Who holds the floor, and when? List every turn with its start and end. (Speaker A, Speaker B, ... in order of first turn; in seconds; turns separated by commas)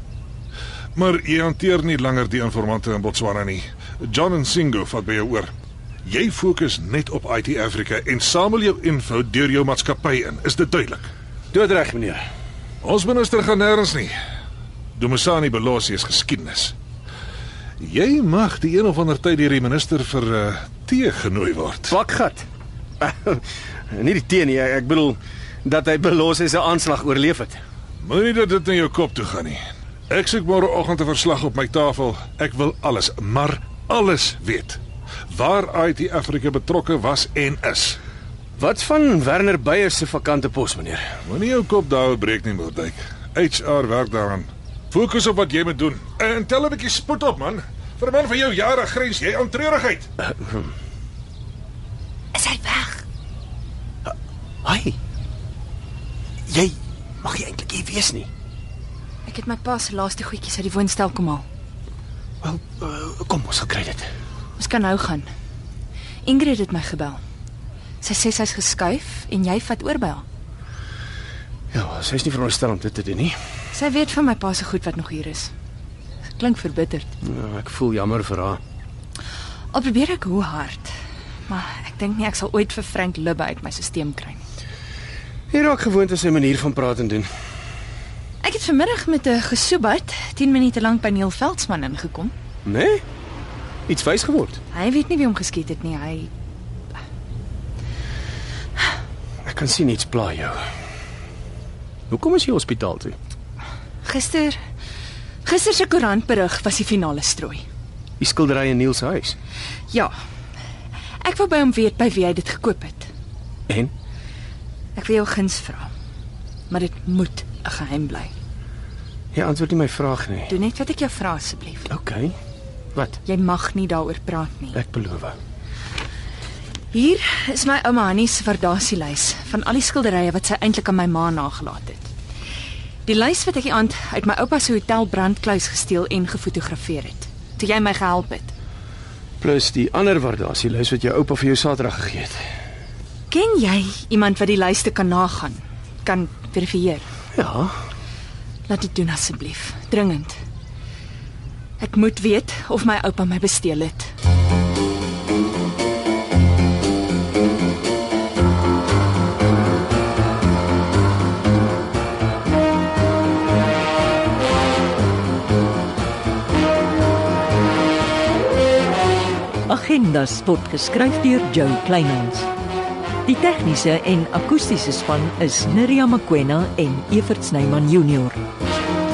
Speaker A: 0.9-5.5, Speaker A: 6.0-11.1, Speaker B: 11.5-12.2, Speaker A: 12.8-14.1, Speaker A: 14.9-16.7, Speaker A: 17.8-22.0, Speaker B: 21.9-22.4, Speaker B: 23.0-27.6, Speaker A: 28.0-34.8, Speaker A: 35.3-38.0, Speaker B: 38.6-41.0, Speaker A: 41.2-50.1, Speaker B: 50.3-50.6, Speaker C: 52.3-53.0, Speaker B: 54.6-54.9, Speaker B: 56.5-58.3, Speaker C: 59.2-61.4, Speaker B: 62.4-64.1, Speaker C: 64.6-65.3, Speaker C: 66.2-67.2, Speaker C: 68.0-70.2, Speaker B: 71.7-73.3, Speaker C: 73.7-75.5, Speaker C: 76.4-77.1, Speaker B: 77.2-78.6, Speaker C: 79.7-80.9, Speaker C: 81.5-84.4, Speaker B: 85.5-87.3, Speaker C: 88.4-92.3, Speaker B: 92.7-93.0, Speaker B: 93.9-94.6, Speaker C: 94.7-96.3, Speaker B: 99.4-100.6, Speaker B: 102.1-103.2, Speaker C: 104.0-104.6, Speaker C: 105.4-107.6, Speaker B: 108.2-109.3, Speaker C: 111.2-113.1, Speaker C: 115.0-115.9, Speaker C: 116.7-118.3, Speaker B: 119.3-120.5, Speaker C: 120.5-121.9, Speaker B: 121.9-122.3, Speaker C: 123.2-124.8, Speaker B: 124.7-125.3, Speaker C: 126.9-132.1, Speaker C: 133.1-138.5, Speaker B: 139.4-142.4, Speaker C: 143.3-147.0, Speaker B: 147.3-147.8, Speaker C: 148.7-150.4, Speaker C: 151.8-154.1, Speaker D: 169.7-172.5, Speaker D: 173.2-178.4